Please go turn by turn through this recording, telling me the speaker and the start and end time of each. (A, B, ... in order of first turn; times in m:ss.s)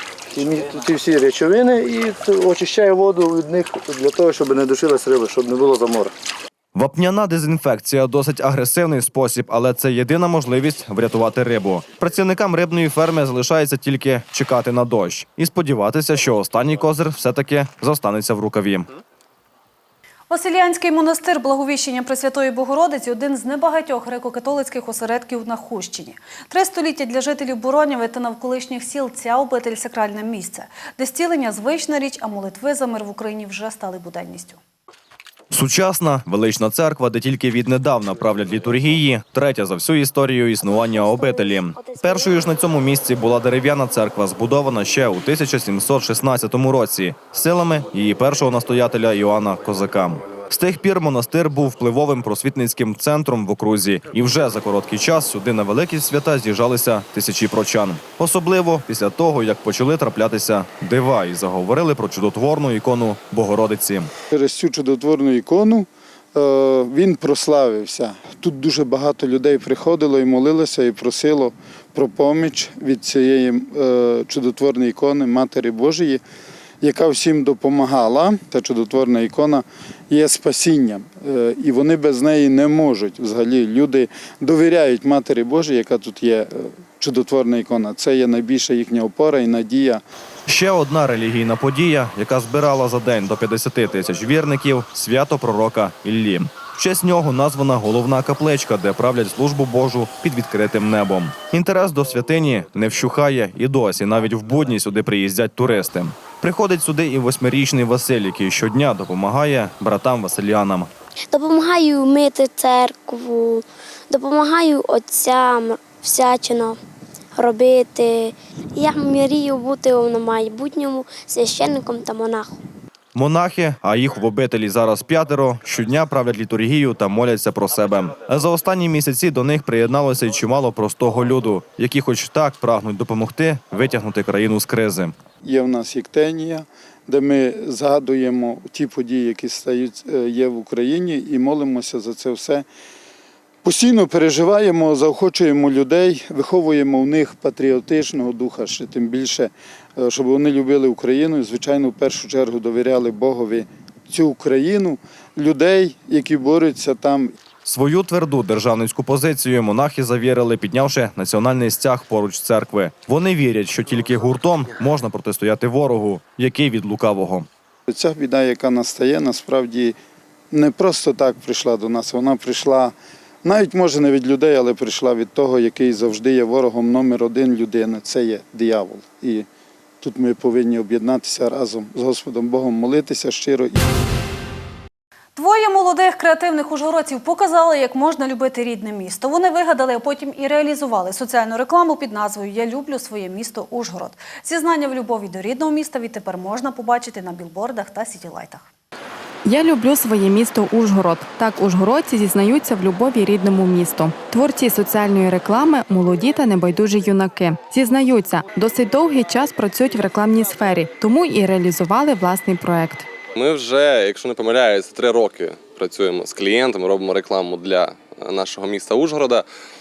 0:00.3-0:06.1 A
0:06.7-0:18.9 B
0:20.3-0:34.6 C
0:35.5-1:04.1 B
0:40.6-0:42.6 D
1:04.3-1:16.2 E
1:16.8-1:30.0 E
1:30.5-1:50.9 B
1:51.3-1:56.8 D
1:57.4-2:02.6 D
2:03.1-2:15.1 B
2:15.4-2:22.6 E
2:23.6-2:37.3 E
2:37.6-2:47.5 B
2:47.9-2:50.0 E
2:50.5-2:59.4 E
3:00.0-3:03.8 E
3:05.4-3:18.7 C
3:19.4-3:33.1 F
3:33.3-3:39.4 G